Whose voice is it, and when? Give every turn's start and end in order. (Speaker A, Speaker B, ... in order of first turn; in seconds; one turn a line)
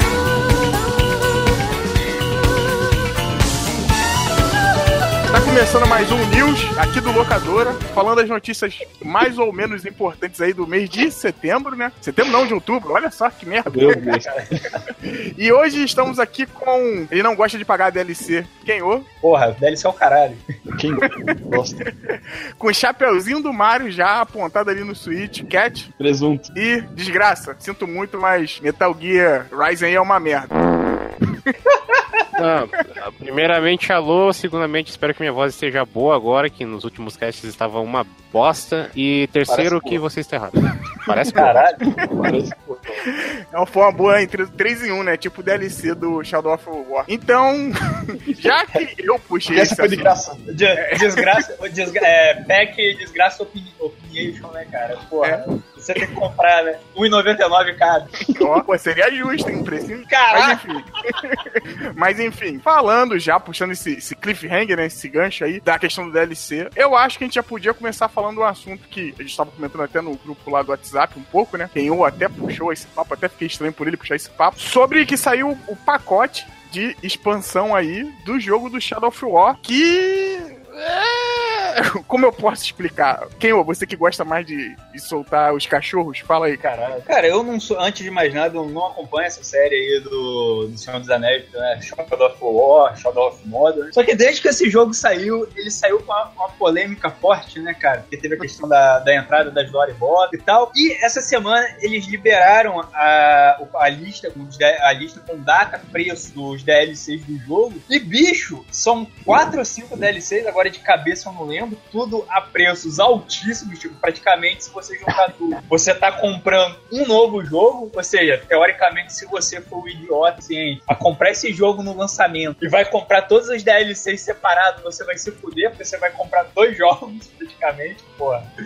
Speaker A: 5.3-14.1
Speaker B: 13.7-14.3
Speaker C: 13.8-14.8
Speaker A: 15.0-19.1
Speaker C: 19.2-20.4
Speaker B: 20.8-21.9
Speaker A: 21.0-21.4
Speaker A: 22.1-25.9
Speaker B: 26.0-26.5
Speaker A: 26.5-30.6
Speaker D: 32.4-41.6
Speaker B: 39.5-40.0
Speaker C: 41.3-41.8
Speaker B: 42.1-43.0
Speaker A: 43.1-50.1
Speaker B: 49.5-50.4
Speaker C: 50.5-58.1
Speaker A: 50.7-51.4
Speaker A: 55.2-55.5
Speaker B: 58.3-58.6
Speaker A: 58.3-86.6
Speaker C: 60.1-60.6
Speaker C: 86.6-128.4